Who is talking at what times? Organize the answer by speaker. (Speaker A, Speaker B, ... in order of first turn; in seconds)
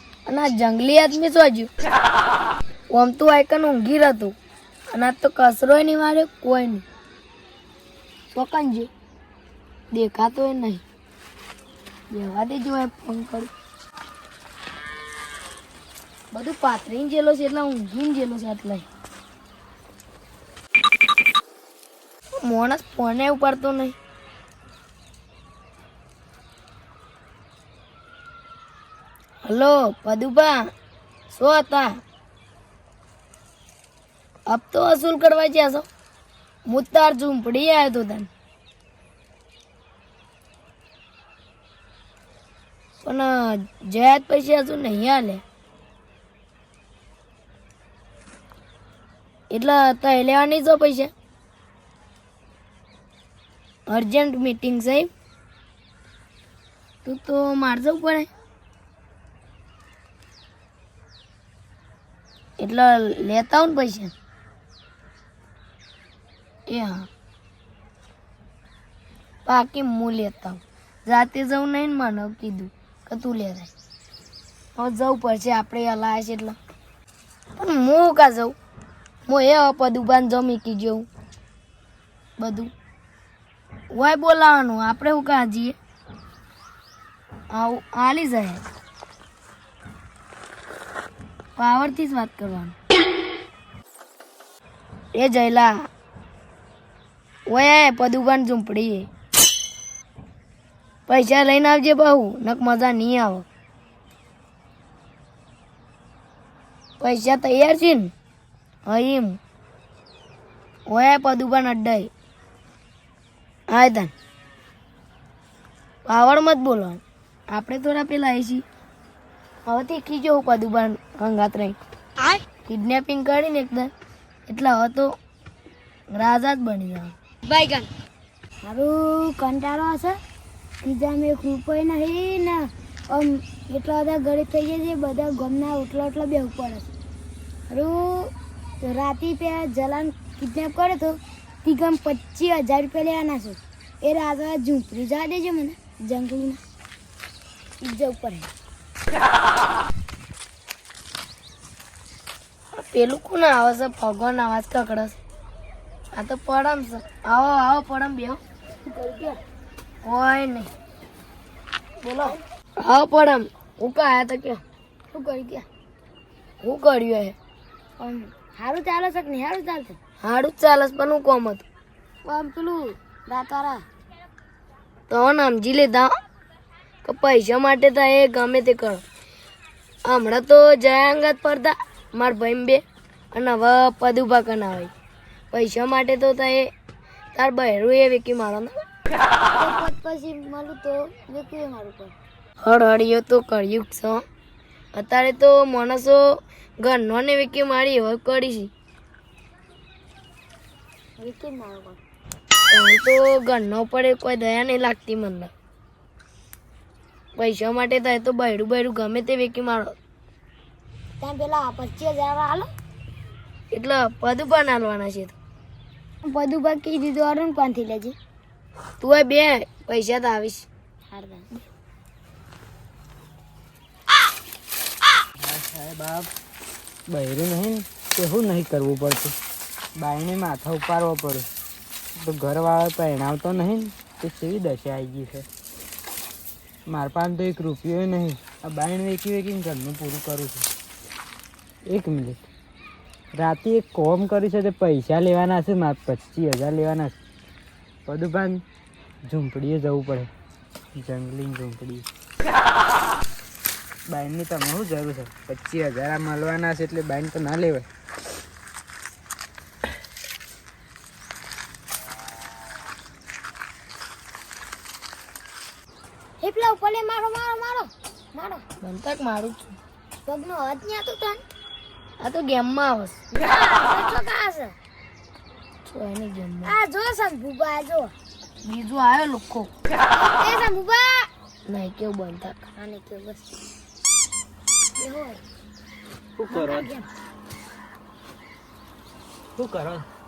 Speaker A: 0.3-1.7, 2.9-4.3, 4.9-6.8, 8.3-8.9, 9.9-10.8, 12.1-13.5, 16.3-18.9, 22.4-23.9, 29.4-30.7, 31.3-32.0, 34.5-35.9, 36.7-38.3, 43.0-45.4, 49.5-51.1, 53.9-55.1, 57.0-58.3, 62.6-64.1, 66.7-67.1, 69.5-73.7, 74.8-76.6, 77.6-78.6, 79.3-81.1, 82.4-82.7, 83.9-85.8, 87.5-88.7, 91.6-92.8, 95.2-95.9, 97.5-99.1, 101.1-103.5, 107.0-108.1, 108.9-109.4, 110.9-112.1, 113.7-114.1, 116.1-118.7, 119.7-121.8, 122.7-123.9, 124.5-125.2, 126.1-127.9, 152.8-155.2, 156.1-158.4, 160.1-160.7, 162.0-164.6, 166.6-167.4, 170.2-171.7, 175.1-176.1, 177.1-179.0, 180.1-184.9, 185.5-186.7, 187.3-188.8, 192.6-194.2, 194.9-198.7, 202.7-205.5, 207.4-210.0, 213.7-215.4, 219.0-220.7, 268.8-269.8, 272.2-273.2, 275.9-276.8, 278.6-279.7, 281.7-282.6
Speaker B: 128.6-130.2, 130.8-136.9, 137.7-146.6, 147.8-148.5, 158.9-159.4, 165.1-165.7, 168.0-170.0, 172.2-173.8, 189.6-192.2, 201.2-202.0, 211.2-212.7, 216.2-218.2, 221.1-221.5, 266.4-268.6, 270.2-271.4, 273.3-274.8, 276.6-278.1, 280.1-281.3, 282.8-283.4, 285.0-285.4, 286.5-287.1
Speaker C: 225.4-226.3, 227.1-229.3, 230.0-231.5, 232.2-235.5, 236.9-240.7, 241.9-242.4, 243.3-247.2, 248.1-248.6, 249.2-250.3, 250.9-252.1, 254.1-257.9, 286.4-286.9, 289.6-290.0